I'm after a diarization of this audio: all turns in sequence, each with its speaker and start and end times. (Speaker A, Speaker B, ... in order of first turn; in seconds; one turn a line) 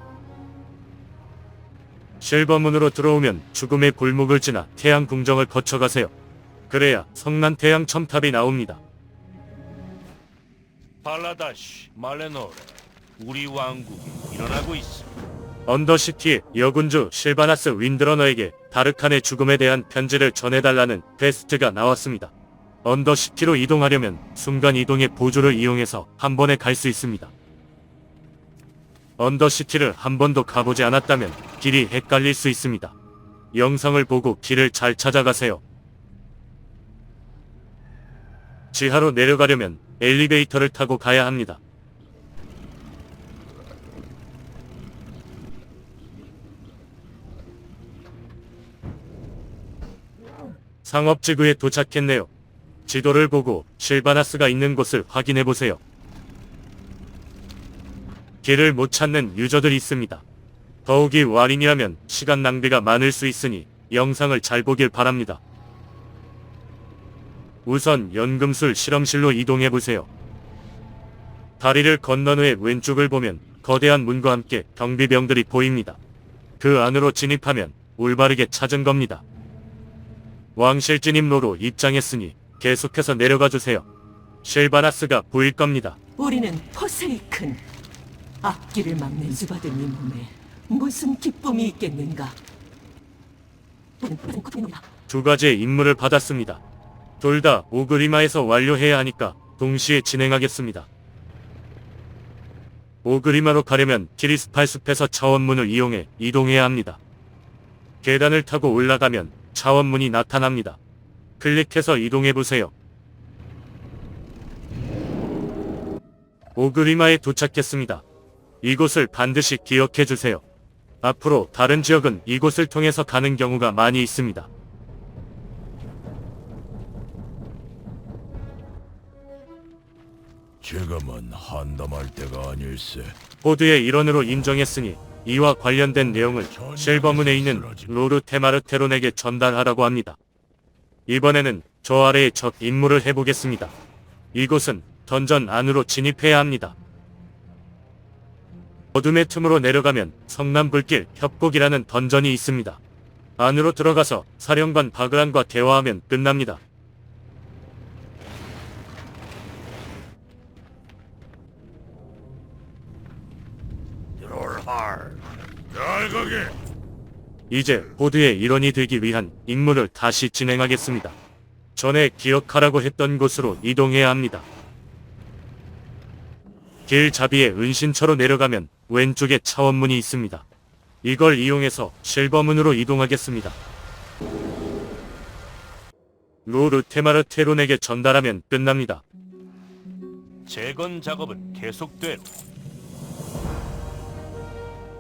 Speaker A: 2.2-6.1
Speaker A: 6.7-8.8
Speaker B: 11.0-15.1
Speaker A: 15.7-22.3
Speaker A: 22.8-27.3
Speaker A: 29.2-33.0
Speaker A: 33.5-35.6
Speaker A: 38.7-41.6
Speaker A: 50.8-52.3
Speaker A: 52.9-55.8
Speaker A: 58.4-60.2
Speaker A: 60.9-65.4
Speaker A: 67.7-70.1
Speaker A: 71.6-76.0
Speaker A: 76.6-79.2
Speaker A: 80.6-83.9
Speaker A: 84.4-86.0
Speaker C: 86.2-87.6
Speaker C: 88.4-92.3
Speaker C: 94.1-94.6
Speaker A: 95.1-96.6
Speaker A: 97.2-100.9
Speaker A: 103.0-107.0
Speaker A: 108.0-110.8
Speaker A: 111.4-112.7
Speaker A: 116.5-118.0
Speaker A: 118.6-120.4
Speaker A: 121.0-124.5
Speaker D: 130.6-133.2
Speaker A: 133.4-140.2
Speaker D: 136.5-137.9
Speaker A: 141.1-143.7
Speaker A: 144.3-146.8
Speaker A: 148.9-152.8
Speaker A: 153.4-156.6
Speaker D: 165.9-166.4
Speaker A: 167.5-171.2
Speaker A: 171.8-174.5
Speaker A: 176.9-180.5
Speaker A: 181.0-183.6
Speaker A: 186.5-189.0
Speaker C: 190.5-192.2
Speaker B: 190.5-190.8